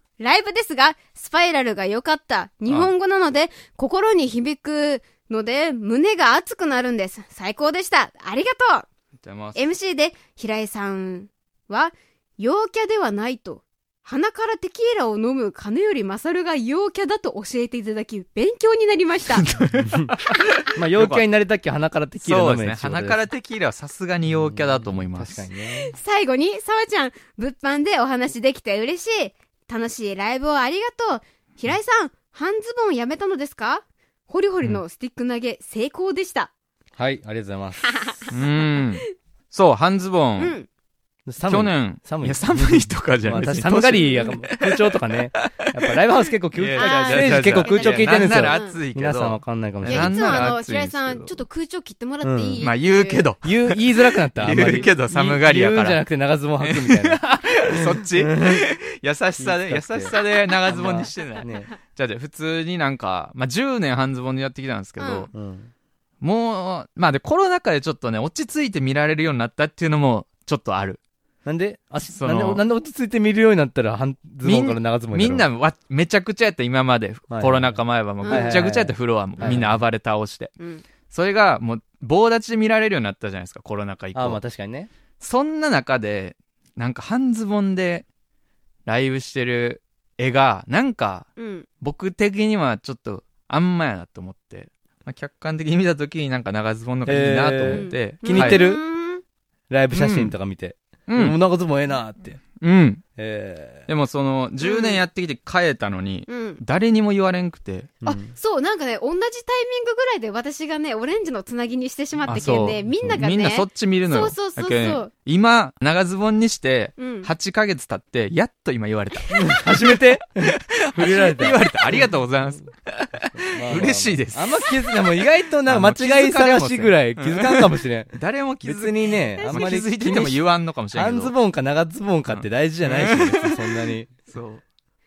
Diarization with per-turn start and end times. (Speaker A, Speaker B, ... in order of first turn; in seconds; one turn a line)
Speaker A: 0.2-8.8
Speaker B: 9.2-9.7
Speaker A: 9.5-19.5
Speaker B: 19.4-21.2
Speaker C: 19.8-20.1
Speaker C: 20.8-23.2
Speaker B: 22.2-25.4
Speaker C: 24.5-25.9
Speaker A: 25.8-36.5
Speaker C: 37.0-37.8
Speaker A: 37.9-38.3
Speaker B: 38.3-40.5
Speaker A: 40.4-40.7
Speaker C: 41.2-50.5
Speaker B: 41.4-44.7
Speaker A: 43.9-44.3
Speaker B: 45.4-45.7
Speaker B: 46.5-51.4
Speaker A: 46.8-48.8
Speaker A: 49.9-53.3
Speaker C: 52.2-52.6
Speaker B: 52.6-56.0
Speaker C: 53.4-58.6
Speaker B: 56.6-65.3
Speaker C: 59.4-61.7
Speaker A: 65.0-65.3
Speaker C: 65.3-65.7
Speaker B: 66.2-71.0
Speaker C: 71.4-75.5
Speaker B: 72.0-72.6
Speaker B: 74.4-80.5
Speaker C: 77.3-79.7
Speaker A: 78.2-78.6
Speaker A: 80.6-80.8
Speaker B: 81.1-84.4
Speaker C: 84.1-84.9
Speaker B: 85.2-88.0
Speaker B: 88.8-91.3
Speaker A: 91.4-91.7
Speaker B: 91.8-98.6
Speaker C: 97.0-98.8
Speaker A: 97.7-99.2
Speaker C: 99.7-102.4
Speaker B: 99.9-100.3
Speaker B: 101.1-101.3
Speaker B: 102.6-103.0
Speaker C: 103.2-103.9
Speaker B: 103.9-107.9
Speaker A: 104.6-105.0
Speaker A: 106.3-106.6
Speaker C: 108.0-108.3
Speaker A: 108.0-115.1
Speaker B: 112.2-119.9
Speaker A: 117.0-117.3
Speaker C: 119.3-122.1
Speaker B: 120.8-131.3
Speaker C: 123.4-134.1
Speaker A: 129.4-129.7
Speaker B: 132.3-134.6